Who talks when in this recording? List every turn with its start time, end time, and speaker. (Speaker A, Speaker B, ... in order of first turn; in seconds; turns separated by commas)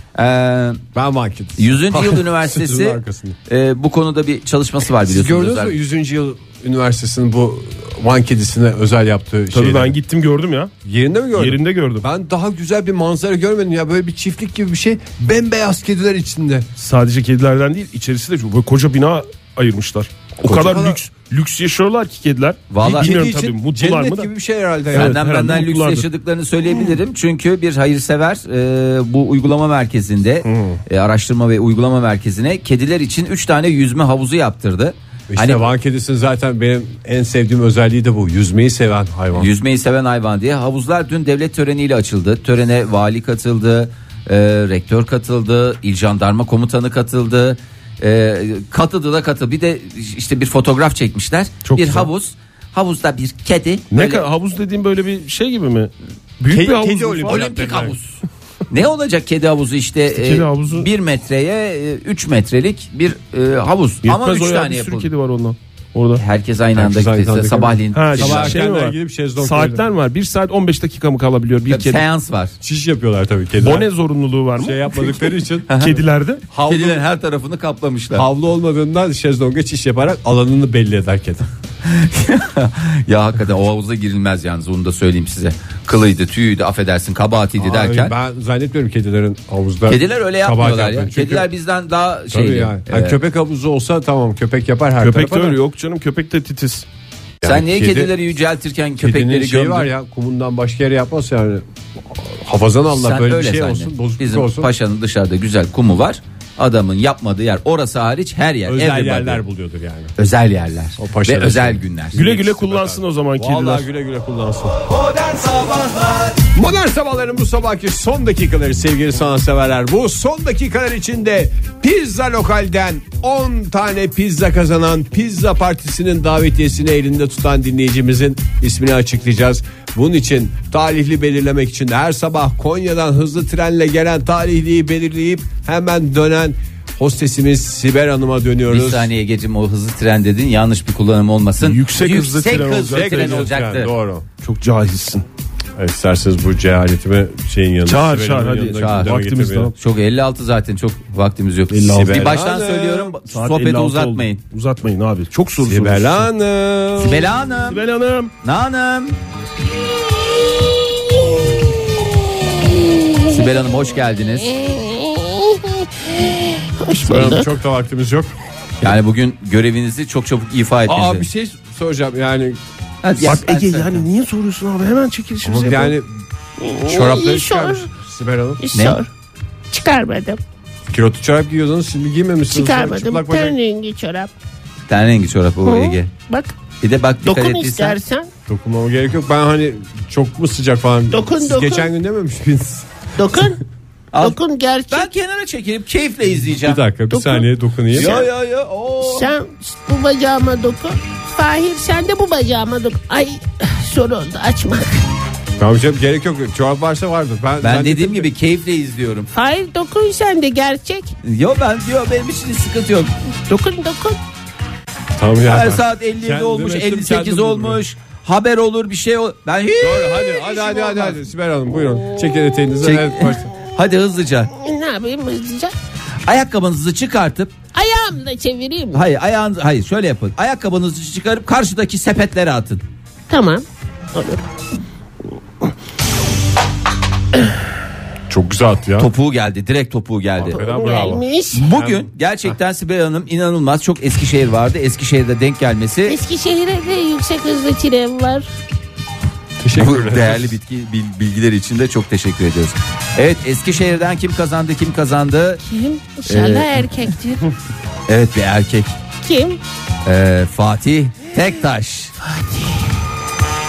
Speaker A: 0.1-0.8, Speaker B: 0.9-3.4, Speaker A: 1.6-5.8, Speaker B: 5.0-10.0, Speaker C: 9.5-10.7, Speaker B: 10.8-16.7, Speaker C: 11.3-12.1, Speaker C: 16.8-24.3, Speaker B: 20.4-21.0, Speaker A: 22.7-23.2, Speaker B: 22.8-25.2, Speaker C: 24.9-26.1, Speaker A: 24.9-35.7, Speaker B: 35.3-39.5, Speaker A: 39.3-54.3, Speaker C: 51.6-52.1, Speaker C: 53.9-57.5, Speaker B: 56.5-58.0, Speaker A: 57.3-65.1, Speaker C: 60.1-60.9, Speaker C: 64.0-66.2, Speaker A: 66.2-68.6, Speaker B: 66.8-69.8, Speaker C: 67.9-72.0, Speaker A: 71.7-72.5, Speaker B: 72.6-73.9, Speaker C: 73.6-76.4, Speaker B: 74.6-75.7, Speaker A: 75.7-76.0, Speaker B: 76.5-77.0, Speaker A: 76.6-78.3, Speaker B: 78.1-81.5, Speaker A: 81.8-88.1, Speaker B: 87.6-91.5, Speaker A: 89.9-93.2, Speaker B: 92.3-95.6, Speaker C: 95.0-96.8, Speaker B: 97.4-98.1, Speaker A: 97.5-99.9, Speaker B: 99.0-104.7, Speaker A: 103.0-109.4, Speaker B: 108.7-110.1, Speaker A: 110.2-112.3, Speaker B: 111.0-115.7, Speaker C: 112.1-113.8, Speaker B: 116.3-139.1, Speaker A: 138.7-143.9, Speaker C: 141.6-143.5, Speaker B: 142.7-144.2, Speaker C: 144.4-145.2, Speaker B: 145.8-149.7, Speaker C: 147.8-149.7, Speaker A: 148.8-149.1, Speaker A: 149.8-154.4, Speaker C: 151.7-152.3, Speaker B: 151.9-153.2, Speaker C: 153.3-156.3, Speaker B: 155.6-157.3, Speaker A: 157.0-157.8, Speaker C: 157.7-158.3, Speaker A: 158.4-159.2, Speaker A: 163.3-164.5, Speaker D: 164.6-165.8, Speaker D: 166.3-167.5, Speaker B: 167.0-168.3, Speaker A: 168.8-171.2, Speaker B: 170.8-172.6, Speaker A: 173.0-174.0, Speaker C: 173.2-175.9, Speaker B: 175.4-176.1, Speaker D: 176.6-177.9, Speaker B: 176.8-178.6, Speaker D: 178.6-179.1, Speaker A: 178.7-179.0, Speaker D: 179.7-180.4, Speaker B: 180.9-183.6, Speaker D: 182.5-184.3, Speaker A: 184.9-186.1, Speaker D: 185.6-186.5, Speaker A: 186.8-188.0, Speaker D: 187.2-188.3, Speaker B: 188.5-192.9, Speaker D: 191.1-191.9, Speaker D: 193.2-193.6, Speaker A: 194.1-196.8, Speaker D: 194.2-195.1, Speaker B: 196.6-198.2, Speaker D: 197.1-198.3, Speaker A: 197.9-199.3, Speaker D: 199.0-204.9, Speaker B: 205.6-208.3, Speaker A: 207.6-209.3, Speaker D: 209.3-211.1, Speaker A: 211.2-213.1, Speaker D: 213.5-214.2, Speaker B: 215.2-217.8, Speaker A: 215.5-221.1, Speaker B: 219.8-223.5, Speaker D: 220.5-221.1, Speaker D: 222.2-222.7, Speaker A: 222.8-224.5, Speaker D: 224.5-225.7, Speaker A: 226.2-227.5, Speaker D: 227.7-229.0, Speaker A: 228.9-232.8, Speaker D: 233.3-234.4, Speaker B: 238.3-239.1, Speaker A: 239.0-246.2, Speaker B: 240.4-242.1, Speaker D: 240.5-241.7, Speaker D: 246.1-248.5, Speaker B: 249.6-250.6, Speaker A: 249.8-255.6, Speaker D: 255.7-257.4, Speaker A: 256.2-256.9, Speaker A: 258.1-258.9, Speaker D: 259.2-259.6, Speaker A: 260.0-262.1, Speaker D: 262.2-262.8